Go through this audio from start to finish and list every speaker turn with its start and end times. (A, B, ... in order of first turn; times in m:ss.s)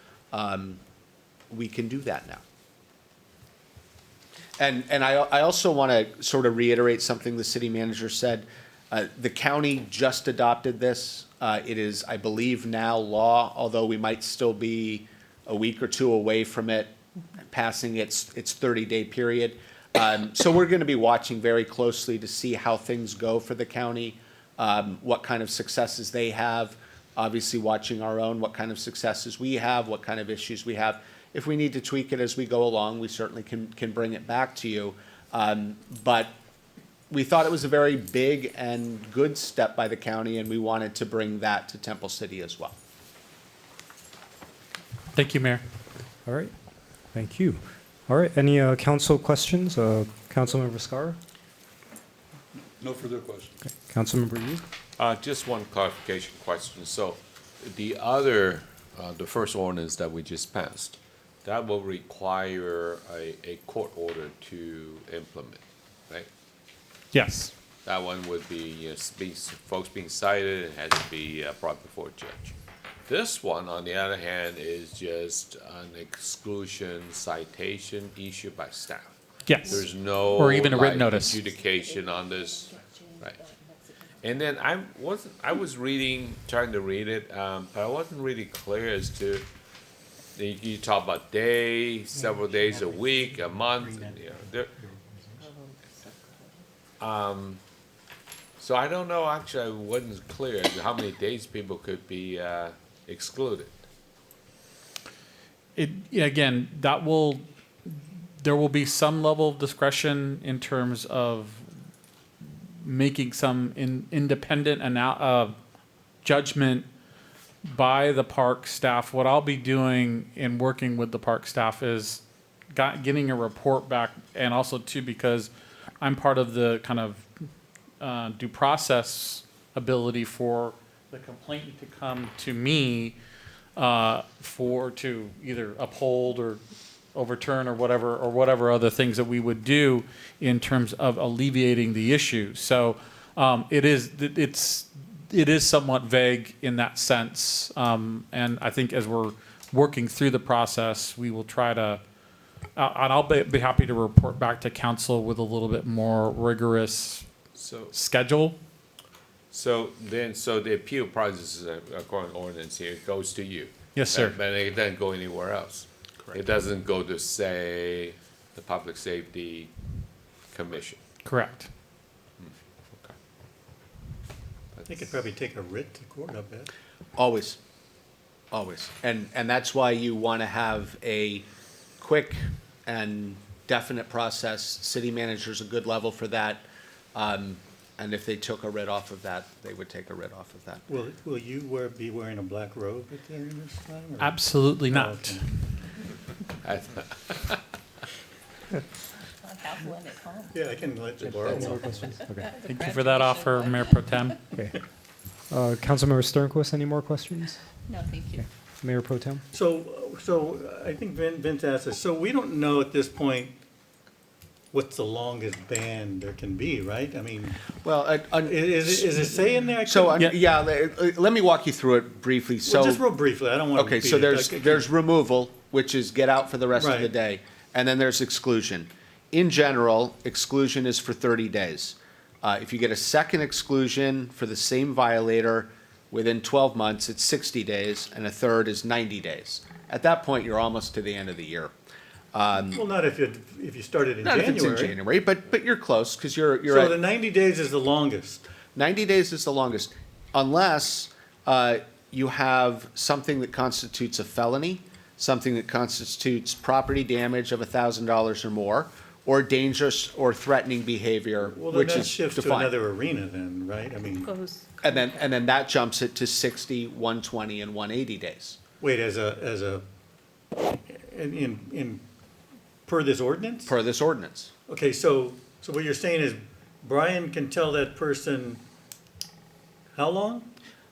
0:00.3-0:00.8 A
0:01.5-0:02.4 A
0:04.6-0:16.9 A
0:17.5-0:36.3 A
0:37.1-0:42.8 A
0:45.1-0:45.6 B
0:46.2-0:46.5 C
0:47.1-0:51.2 C
0:53.6-0:54.6 C
0:55.0-1:06.3 D
1:07.1-1:07.5 B
1:07.8-1:12.6 D
1:13.1-1:19.2 D
1:19.5-1:21.3 B
1:19.6-1:24.7 E
1:19.7-1:23.4 D
1:24.2-1:29.5 D
1:30.4-1:34.7 D
1:32.1-1:35.5 F
1:35.4-1:36.6 E
1:37.0-1:37.6 D
1:38.6-1:43.8 D
1:45.8-1:51.6 B
1:52.8-1:55.5 B
1:56.2-1:56.9 B
1:57.7-2:02.2 B
2:02.7-2:05.5 B
2:06.0-2:07.2 B
2:08.0-2:13.2 B
2:13.8-2:16.6 B
2:17.1-2:32.0 B
2:32.8-2:37.2 B
2:37.6-2:37.9 D
2:37.9-2:38.6 B
2:39.5-2:49.7 D
2:43.9-2:44.4 B
2:50.5-2:51.0 D
2:51.2-2:51.7 B
2:52.4-2:53.1 D
2:54.9-2:56.7 F
2:57.2-2:57.6 A
2:58.5-3:01.4 A
3:02.0-3:10.8 A
3:10.9-3:15.4 F
3:14.2-3:15.4 B
3:16.6-3:17.6 D
3:19.4-3:24.4 E
3:20.5-3:22.1 F
3:21.2-3:22.5 C
3:22.6-3:24.4 B
3:25.5-3:27.6 C
3:27.9-3:28.5 E
3:28.8-3:29.4 C
3:29.5-3:33.5 F
3:34.7-3:37.6 F
3:37.8-3:43.0 A
3:38.4-3:40.1 F
3:42.6-3:44.9 F
3:43.8-4:01.7 A
3:46.7-3:47.1 F
4:02.3-4:02.8 A
4:02.7-4:05.0 F
4:04.2-4:07.0 A
4:06.6-4:08.4 F
4:08.7-4:22.7 A
4:21.4-4:24.3 F
4:24.8-4:28.6 A
4:28.8-4:29.8 F
4:30.9-4:32.0 F
4:32.8-4:33.7 F
4:33.7-4:34.5 A
4:34.7-4:38.6 F
4:39.9-4:40.5 F